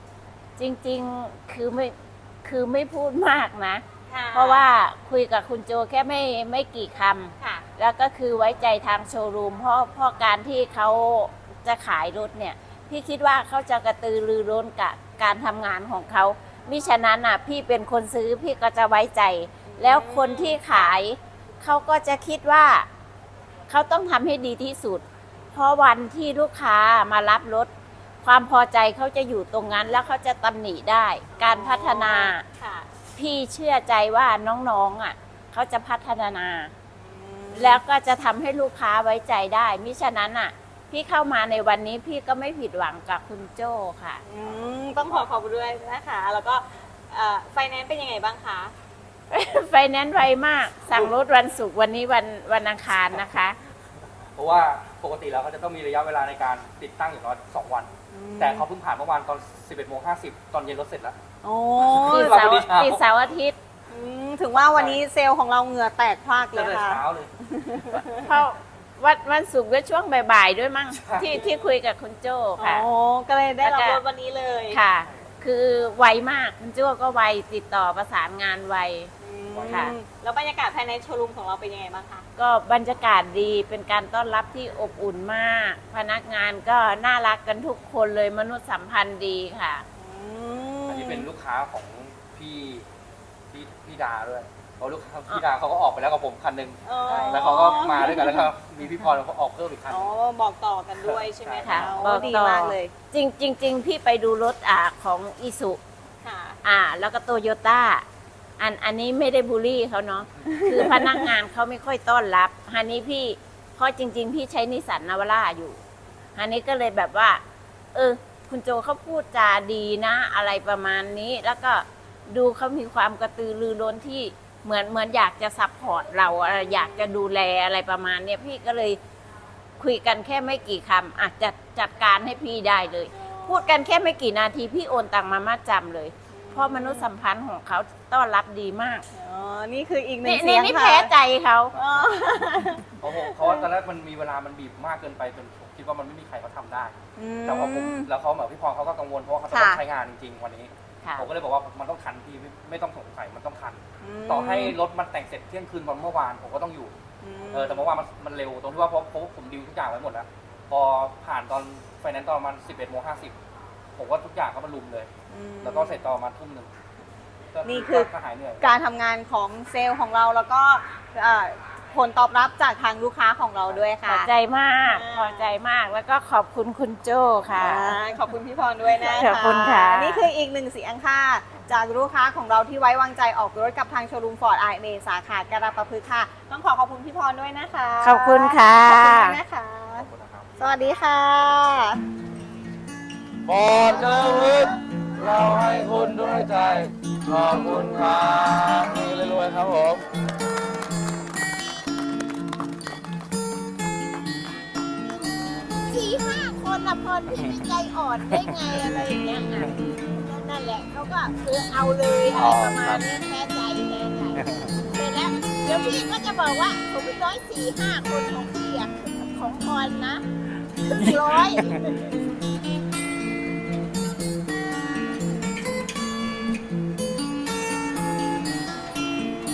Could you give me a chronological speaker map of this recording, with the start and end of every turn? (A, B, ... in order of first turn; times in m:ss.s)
0:00.6-0:22.9 A
0:04.1-0:04.7 B
0:19.7-0:21.0 B
0:23.7-0:27.7 A
0:28.2-0:32.4 A
0:31.4-0:32.9 B
0:33.2-0:36.7 A
0:37.0-0:37.8 B
0:37.6-0:44.2 A
0:44.2-0:48.7 B
0:49.3-0:53.6 A
0:54.4-1:01.2 C
0:58.1-0:58.7 B
1:01.4-1:02.6 B
1:01.8-1:03.0 C
1:02.0-1:03.6 A
1:03.9-1:08.3 B
1:04.7-1:05.0 C
1:06.5-1:07.3 C
1:07.9-1:12.9 A
1:10.9-1:11.5 C
1:12.6-1:14.8 B
1:13.6-1:14.0 A
1:14.7-1:19.1 A
1:19.2-1:22.2 B
1:19.5-1:20.0 C
1:19.7-1:20.0 A
1:22.4-1:29.8 A
1:30.0-1:31.3 B
1:30.9-1:32.9 C
1:33.5-1:40.1 C
1:36.9-1:38.5 B
1:37.1-1:37.5 A
1:39.9-1:42.9 B
1:41.0-1:42.2 C
1:41.6-1:45.8 A
1:46.2-1:46.6 B
1:46.6-1:48.0 A
1:48.6-1:55.8 A
1:50.6-1:51.3 B
1:56.4-1:57.4 A
1:57.9-2:09.0 A
2:06.4-2:07.1 B
2:09.8-2:19.0 A
2:13.1-2:13.8 B
2:16.3-2:17.1 B
2:19.1-2:21.1 B
2:20.2-2:21.8 A
2:21.8-2:22.1 C
2:21.8-2:23.7 B
2:22.9-2:26.9 C
2:27.2-2:28.1 B
2:27.4-2:36.9 C
2:29.5-2:29.8 B
2:34.0-2:34.8 B
2:37.2-2:37.9 B
2:37.5-2:43.4 C
2:44.0-2:45.1 C
2:45.3-2:46.1 B
2:45.6-2:46.7 C
2:47.6-2:48.8 C
2:47.7-2:48.1 B
2:48.6-2:54.3 B
2:54.0-2:58.0 A
2:54.8-2:55.5 B
2:57.5-3:10.1 B
2:59.0-3:00.3 A
3:08.0-3:09.4 A
3:10.0-3:10.5 C
3:10.6-3:12.0 B
3:13.5-3:20.0 D
3:25.7-3:40.2 A
3:32.4-3:33.0 C
3:40.8-3:41.8 A